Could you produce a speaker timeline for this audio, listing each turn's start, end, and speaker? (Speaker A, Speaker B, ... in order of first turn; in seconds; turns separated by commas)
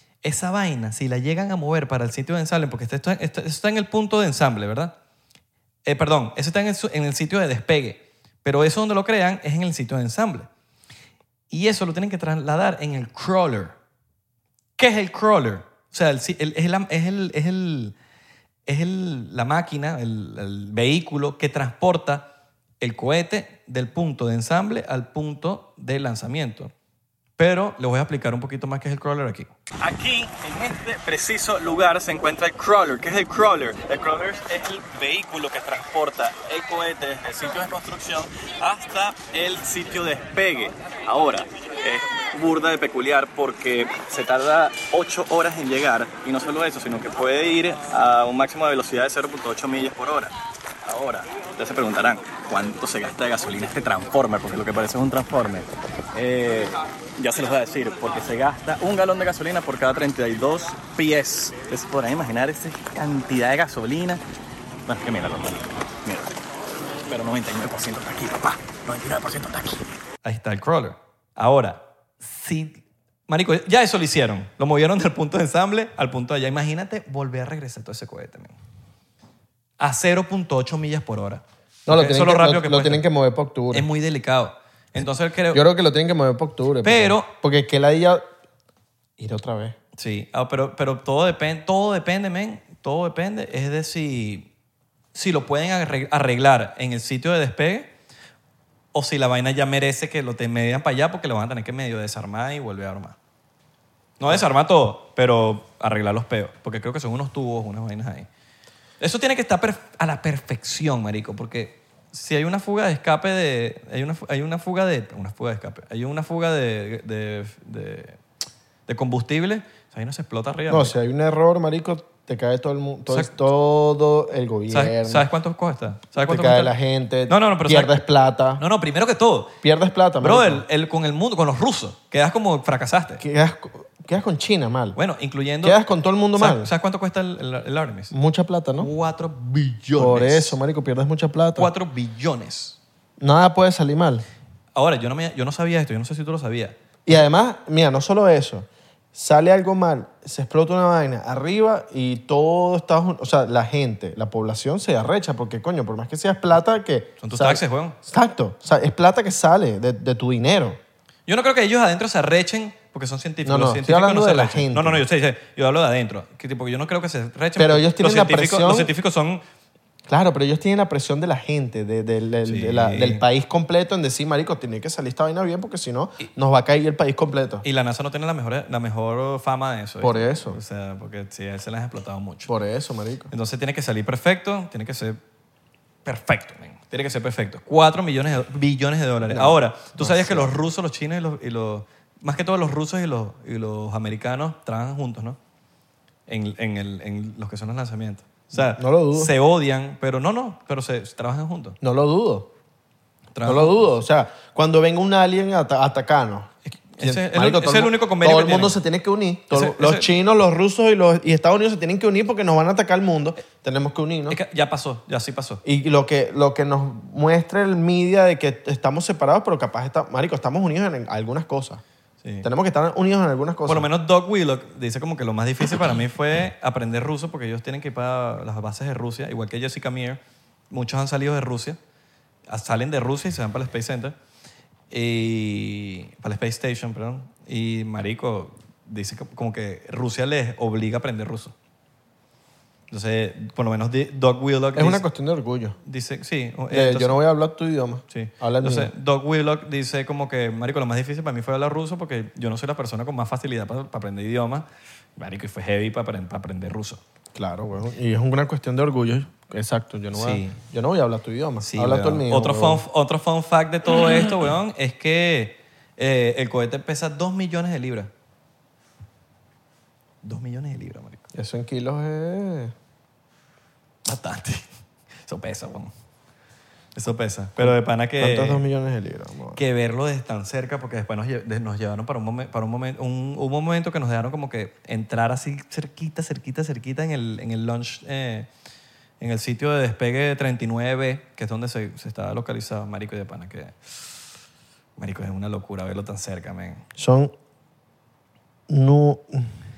Speaker A: 0.2-5.0, Speaker A: 5.8-10.5, Speaker A: 11.5-13.8, Speaker A: 14.8-17.9, Speaker A: 18.7-22.3, Speaker A: 22.8-26.7, Speaker A: 27.4-50.3, Speaker A: 50.8-64.2, Speaker A: 64.9-66.3, Speaker A: 67.0-78.6, Speaker A: 79.8-83.0, Speaker B: 81.9-83.9, Speaker A: 83.7-85.6, Speaker B: 85.5-88.2, Speaker A: 86.8-87.3, Speaker B: 89.2-89.8, Speaker A: 90.0-94.5, Speaker A: 95.1-97.9, Speaker A: 98.9-103.2, Speaker A: 104.2-108.3, Speaker A: 109.0-118.2, Speaker A: 118.9-121.0, Speaker B: 120.7-125.2, Speaker A: 124.7-126.7, Speaker B: 126.2-128.6, Speaker A: 127.3-128.0, Speaker A: 128.6-129.6, Speaker B: 129.6-130.6, Speaker A: 130.2-133.2, Speaker B: 133.2-135.0, Speaker A: 135.0-135.8, Speaker B: 135.6-136.7, Speaker A: 136.4-138.1, Speaker B: 138.1-138.9, Speaker A: 138.8-140.6, Speaker B: 140.0-141.7, Speaker A: 141.6-142.8, Speaker B: 143.2-144.3, Speaker A: 144.8-146.8, Speaker B: 147.1-160.8, Speaker A: 157.2-158.0, Speaker A: 161.3-169.4, Speaker B: 163.4-165.0, Speaker B: 167.6-168.9, Speaker B: 170.1-177.6, Speaker A: 172.4-173.2, Speaker A: 177.6-182.5, Speaker B: 180.0-180.6, Speaker B: 182.5-183.3, Speaker A: 183.3-185.2, Speaker A: 186.1-195.4, Speaker B: 189.3-190.5, Speaker A: 196.3-201.8, Speaker B: 198.5-199.3, Speaker B: 201.8-202.5, Speaker A: 203.3-204.0, Speaker B: 203.4-214.4, Speaker A: 206.7-208.8, Speaker A: 209.5-210.1, Speaker A: 214.3-215.6, Speaker B: 215.7-221.8, Speaker A: 222.2-222.5, Speaker B: 222.4-223.9, Speaker A: 223.7-231.8, Speaker A: 232.5-234.2, Speaker A: 234.9-241.5, Speaker A: 242.9-245.0, Speaker B: 244.8-245.8, Speaker A: 245.8-247.2, Speaker B: 246.7-248.9, Speaker A: 248.1-257.0, Speaker B: 257.4-262.8, Speaker A: 260.1-260.6, Speaker A: 261.6-268.1, Speaker A: 270.2-271.3, Speaker B: 271.3-272.7, Speaker A: 274.1-274.7, Speaker A: 275.2-275.9, Speaker A: 276.9-278.6, Speaker B: 277.6-279.6, Speaker A: 279.6-288.5, Speaker A: 289.2-294.2, Speaker A: 295.0-296.8, Speaker B: 297.0-297.3, Speaker B: 298.7-299.5